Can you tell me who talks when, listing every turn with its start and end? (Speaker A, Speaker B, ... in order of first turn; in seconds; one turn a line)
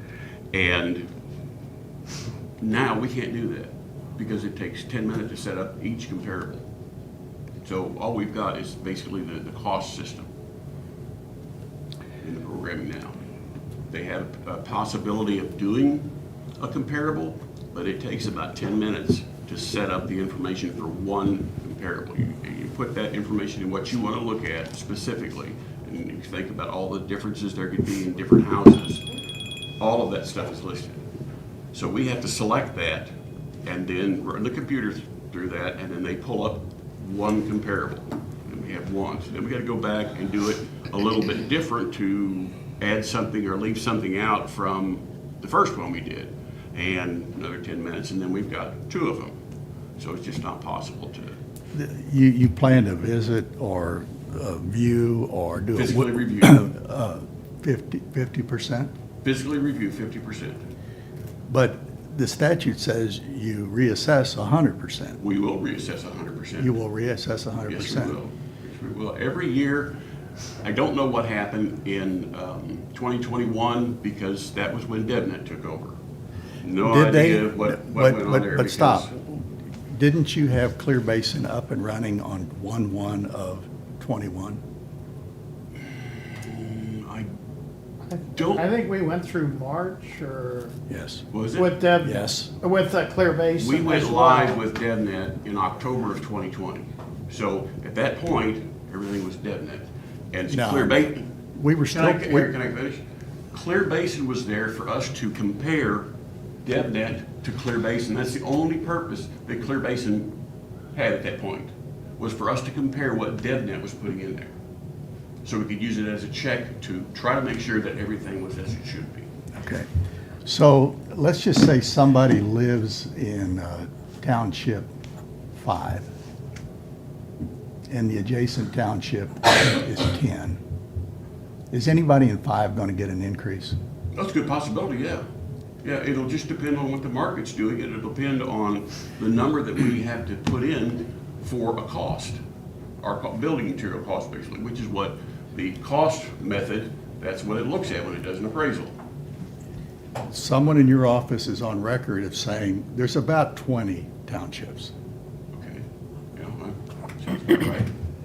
Speaker A: 0.5-1.1
Speaker A: 2.6-6.7
Speaker A: 7.6-10.3
Speaker A: 12.2-13.1
Speaker A: 13.9-29.0
Speaker A: 29.8-31.0
Speaker A: 31.7-33.1
Speaker A: 33.6-49.4
Speaker A: 50.0-51.4
Speaker B: 51.7-58.9
Speaker A: 55.8-56.6
Speaker A: 59.2-60.6
Speaker B: 61.5-65.2
Speaker A: 65.2-66.7
Speaker B: 66.6-68.2
Speaker A: 67.7-69.9
Speaker A: 70.6-76.0
Speaker A: 76.6-79.1
Speaker B: 76.8-84.6
Speaker A: 85.8-87.3
Speaker C: 88.1-90.8
Speaker A: 88.3-88.7
Speaker B: 90.9-91.2
Speaker A: 91.3-91.8
Speaker C: 91.5-94.6
Speaker B: 92.0-92.5
Speaker A: 93.6-101.3
Speaker B: 100.5-102.5
Speaker A: 101.9-103.0
Speaker A: 103.5-106.1
Speaker A: 106.6-110.3
Speaker A: 110.9-114.5
Speaker A: 115.4-119.3
Speaker B: 119.5-119.8
Speaker B: 120.4-124.9
Speaker B: 125.5-126.1
Speaker B: 127.9-130.6
Speaker B: 131.7-133.8
Speaker A: 134.1-135.2
Speaker A: 135.8-142.4
Speaker A: 143.0-148.9
Speaker B: 150.3-154.9
Speaker A: 155.5-157.9